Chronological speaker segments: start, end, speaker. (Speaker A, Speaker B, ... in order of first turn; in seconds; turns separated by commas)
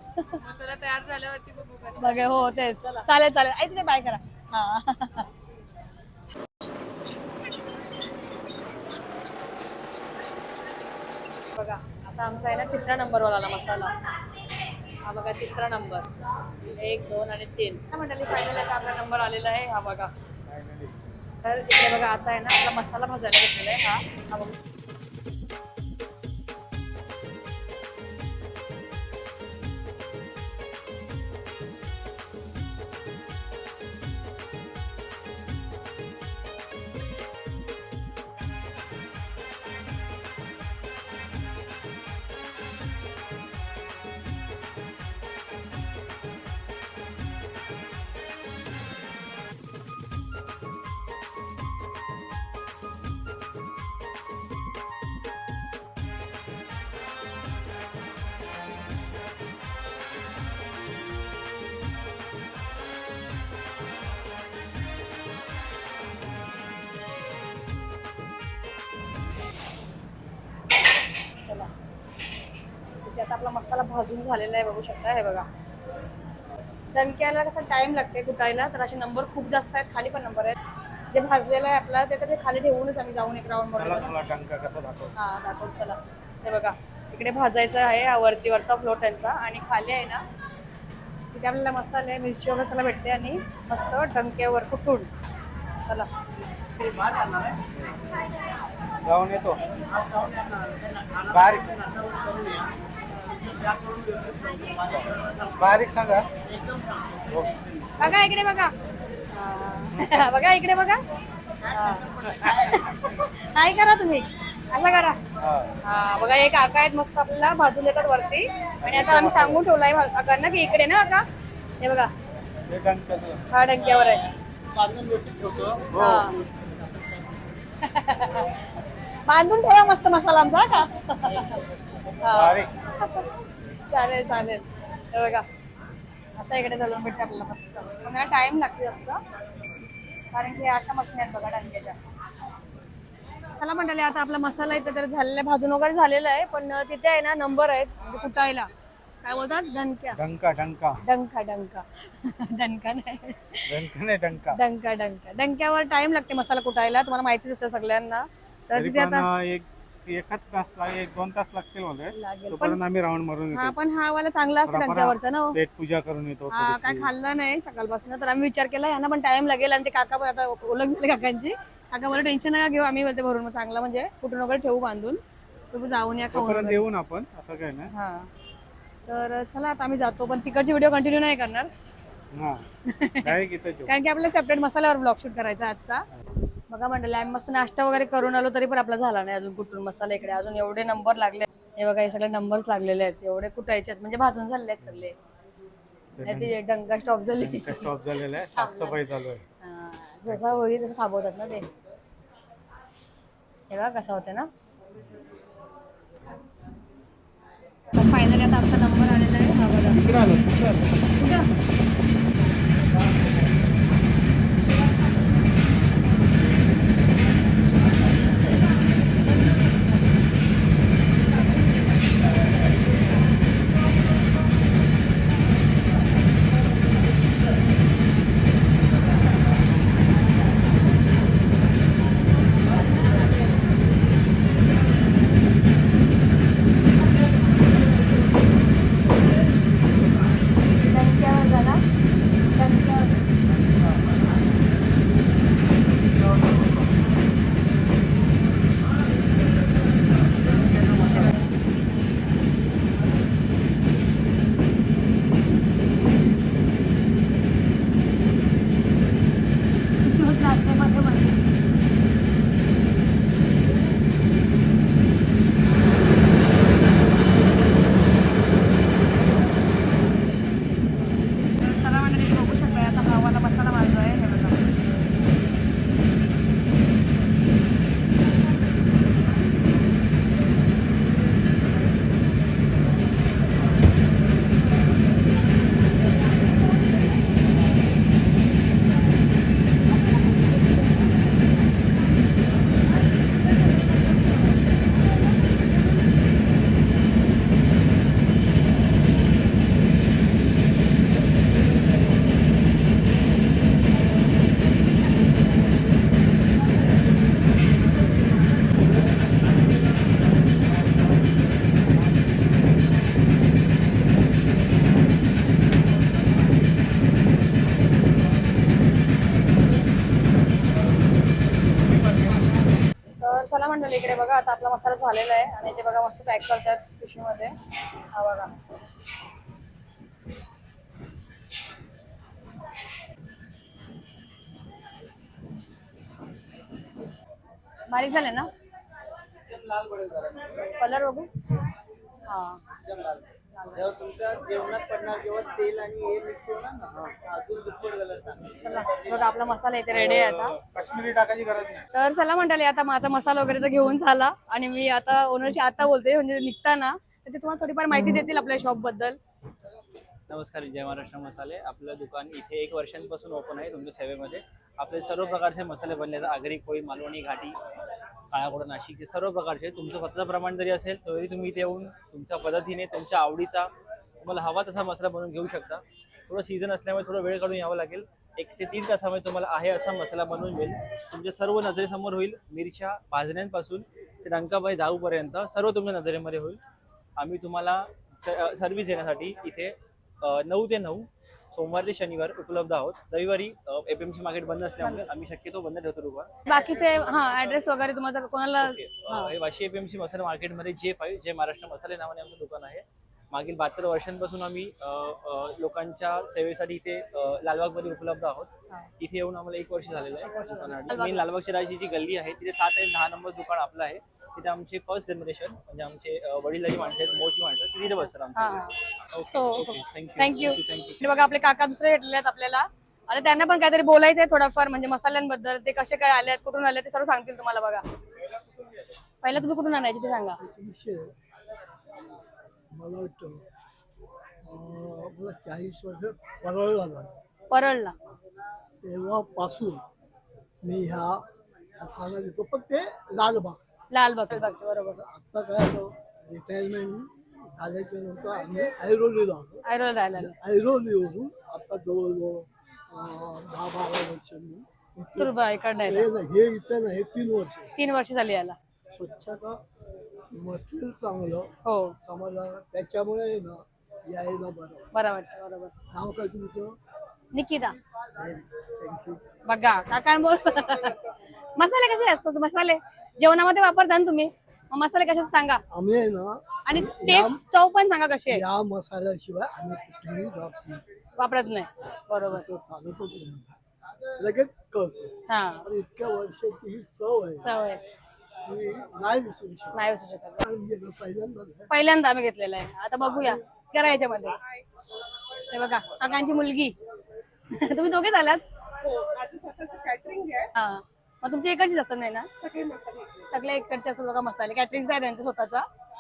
Speaker A: 0.3-2.5, Speaker B: 2.0-5.3, Speaker B: 11.5-13.9, Speaker B: 15.1-16.1, Speaker B: 16.8-20.1, Speaker C: 20.5-21.0, Speaker B: 21.4-24.5, Speaker B: 71.4-71.7, Speaker B: 73.0-75.5, Speaker B: 76.9-80.5, Speaker B: 81.1-84.1, Speaker C: 83.7-85.2, Speaker B: 85.2-90.2, Speaker B: 91.3-95.1, Speaker B: 95.8-96.1, Speaker C: 99.0-99.6, Speaker C: 101.2-101.8, Speaker C: 104.7-106.3, Speaker C: 107.3-108.3, Speaker B: 108.0-108.7, Speaker B: 109.3-111.0, Speaker B: 111.7-115.2, Speaker C: 115.4-115.7, Speaker B: 115.8-121.3, Speaker C: 118.8-119.7, Speaker B: 121.8-122.1, Speaker C: 122.7-123.4, Speaker B: 123.5-124.2, Speaker C: 125.4-126.3, Speaker B: 126.0-126.3, Speaker B: 127.8-128.6, Speaker B: 129.3-131.6, Speaker B: 132.2-133.3, Speaker C: 132.3-132.7, Speaker B: 133.9-135.5, Speaker B: 136.4-139.2, Speaker B: 140.3-142.0, Speaker B: 143.6-148.7, Speaker B: 149.2-150.2, Speaker C: 150.1-151.0, Speaker B: 151.0-153.8, Speaker C: 153.7-154.6, Speaker B: 154.5-159.3, Speaker C: 158.7-163.8, Speaker B: 162.1-162.8, Speaker B: 163.5-165.6, Speaker C: 164.7-167.1, Speaker B: 166.5-175.2, Speaker B: 175.7-176.8, Speaker C: 176.3-177.9, Speaker B: 177.9-178.3, Speaker B: 179.1-181.7, Speaker C: 182.3-182.6, Speaker B: 182.9-183.3, Speaker C: 183.2-183.9, Speaker B: 183.9-186.1, Speaker B: 186.7-195.2, Speaker C: 196.2-196.6, Speaker B: 196.2-197.9, Speaker C: 197.3-199.4, Speaker B: 198.5-199.0, Speaker B: 199.6-201.7, Speaker C: 200.3-200.7, Speaker B: 203.7-204.5, Speaker B: 207.9-210.0, Speaker C: 209.9-211.0, Speaker B: 211.2-211.5, Speaker B: 233.0-233.6, Speaker B: 240.9-241.8, Speaker B: 242.6-243.1, Speaker B: 251.0-251.4, Speaker B: 260.1-261.4, Speaker B: 271.6-274.6, Speaker B: 323.2-327.5, Speaker B: 328.1-328.5, Speaker B: 337.9-338.5, Speaker D: 339.5-340.7, Speaker B: 340.8-341.3, Speaker B: 342.3-342.6, Speaker D: 342.7-348.5, Speaker B: 343.6-343.8, Speaker B: 348.6-350.6, Speaker C: 349.9-351.9, Speaker B: 351.9-359.2, Speaker E: 360.3-367.6, Speaker E: 368.3-373.7, Speaker E: 374.2-386.6, Speaker E: 387.2-396.3, Speaker B: 396.5-399.3, Speaker E: 398.6-418.6, Speaker B: 410.2-411.2, Speaker B: 417.8-418.7, Speaker E: 419.1-421.0, Speaker B: 419.3-427.8, Speaker B: 429.2-430.4, Speaker F: 430.4-431.1, Speaker F: 432.7-433.4, Speaker F: 434.4-437.1, Speaker B: 437.5-437.9, Speaker F: 438.8-439.8, Speaker F: 440.6-441.2, Speaker F: 441.8-443.8, Speaker B: 443.9-445.0, Speaker F: 444.3-457.7, Speaker B: 449.7-450.3, Speaker B: 455.2-456.1, Speaker B: 457.8-458.6, Speaker F: 458.9-459.6, Speaker F: 460.3-461.5, Speaker B: 461.6-462.0, Speaker F: 462.0-464.9, Speaker B: 464.9-465.7, Speaker F: 465.9-466.7, Speaker B: 467.3-467.8, Speaker F: 468.2-469.2, Speaker B: 469.5-471.0, Speaker B: 471.6-475.6, Speaker F: 475.7-477.4, Speaker B: 476.7-478.4, Speaker F: 478.3-480.8, Speaker B: 481.2-482.5, Speaker F: 482.2-483.5, Speaker F: 484.2-487.5, Speaker B: 485.3-485.6, Speaker B: 487.4-487.8, Speaker F: 488.5-489.9, Speaker B: 489.8-490.4, Speaker F: 490.4-491.7, Speaker B: 491.7-494.4, Speaker B: 495.5-496.8, Speaker B: 497.5-498.4, Speaker G: 498.8-500.5, Speaker B: 500.6-502.3, Speaker G: 502.4-503.3, Speaker B: 503.3-505.7